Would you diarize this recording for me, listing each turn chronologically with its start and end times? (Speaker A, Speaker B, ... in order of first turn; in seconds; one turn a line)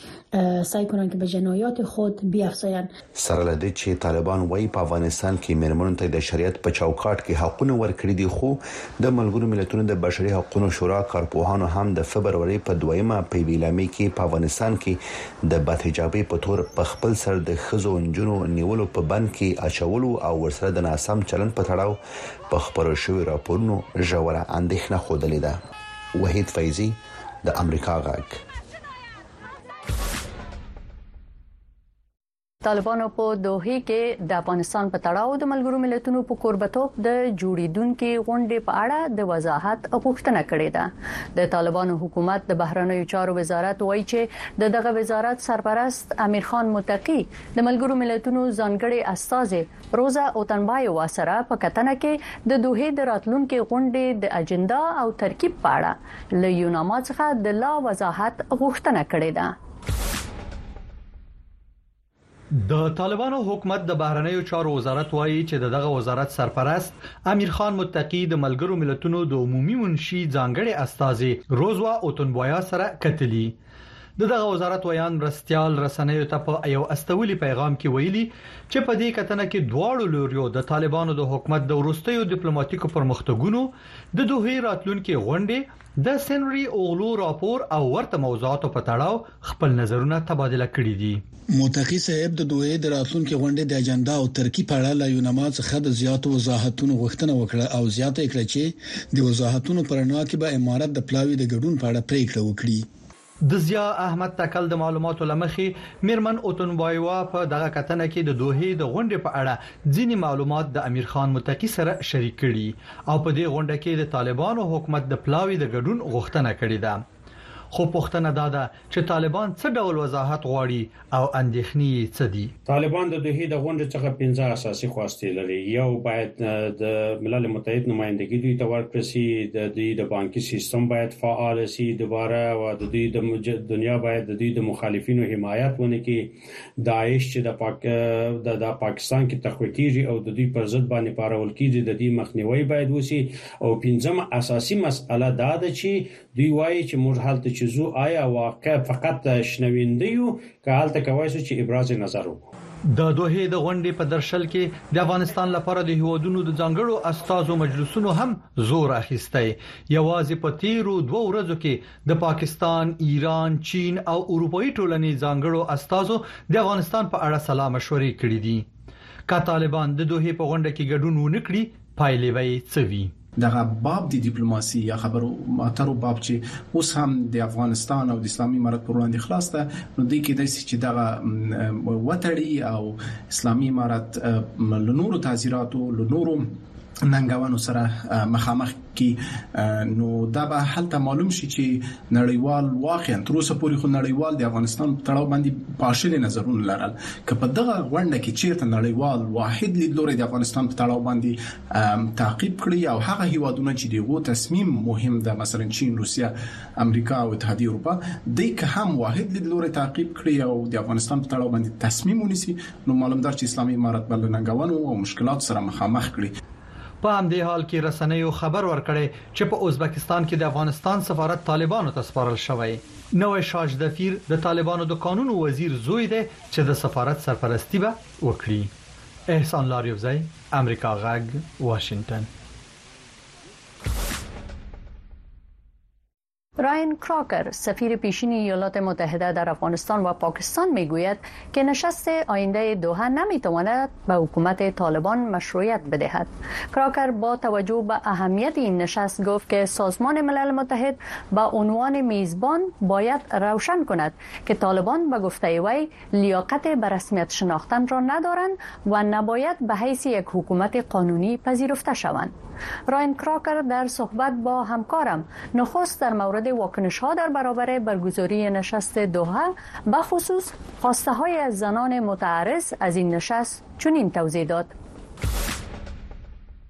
Speaker A: 0.3-2.9
Speaker B: 3.2-22.0
Speaker B: 22.5-25.6
Speaker B: 26.1-28.4
Speaker C: 32.6-59.6
Speaker D: 62.5-73.5
Speaker D: 74.2-91.2
Speaker E: 91.5-102.9
Speaker D: 103.4-117.0
Speaker D: 117.7-122.5
Speaker F: 122.7-152.4
Speaker D: 152.9-168.7
Speaker D: 169.3-173.1
Speaker G: 173.4-216.3
Speaker D: 217.0-228.7
Speaker D: 229.3-232.3
Speaker C: 236.6-262.3
Speaker C: 262.9-274.7